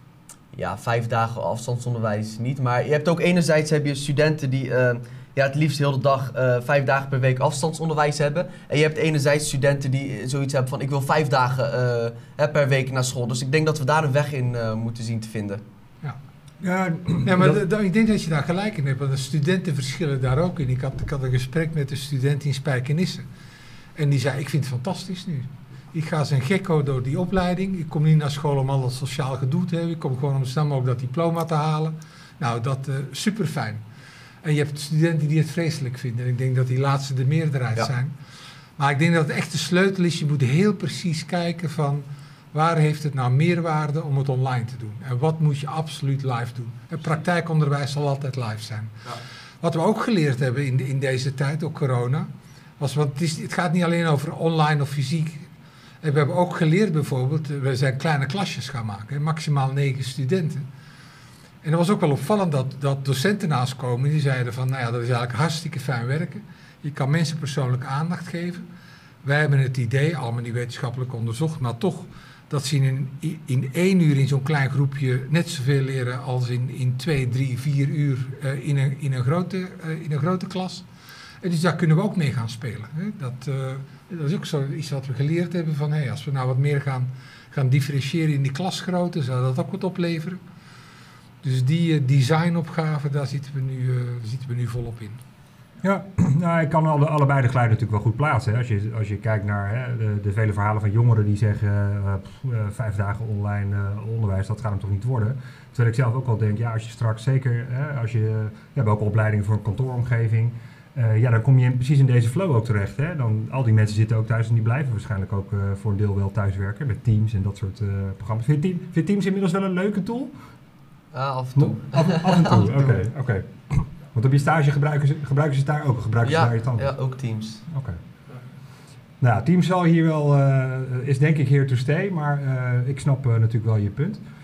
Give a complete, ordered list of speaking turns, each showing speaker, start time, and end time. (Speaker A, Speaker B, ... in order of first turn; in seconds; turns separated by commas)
Speaker A: 0.5-15.6, Speaker B: 16.6-17.6, Speaker C: 17.2-23.2, Speaker C: 23.9-33.8, Speaker C: 34.4-38.1, Speaker C: 38.8-48.9, Speaker C: 49.6-55.5, Speaker C: 56.0-60.6, Speaker C: 61.6-68.6, Speaker C: 69.2-80.8, Speaker C: 81.4-90.4, Speaker C: 91.4-95.2, Speaker B: 95.8-120.3, Speaker A: 121.1-122.9, Speaker B: 121.5-126.9, Speaker A: 126.2-127.6, Speaker B: 127.7-128.0, Speaker B: 129.2-134.2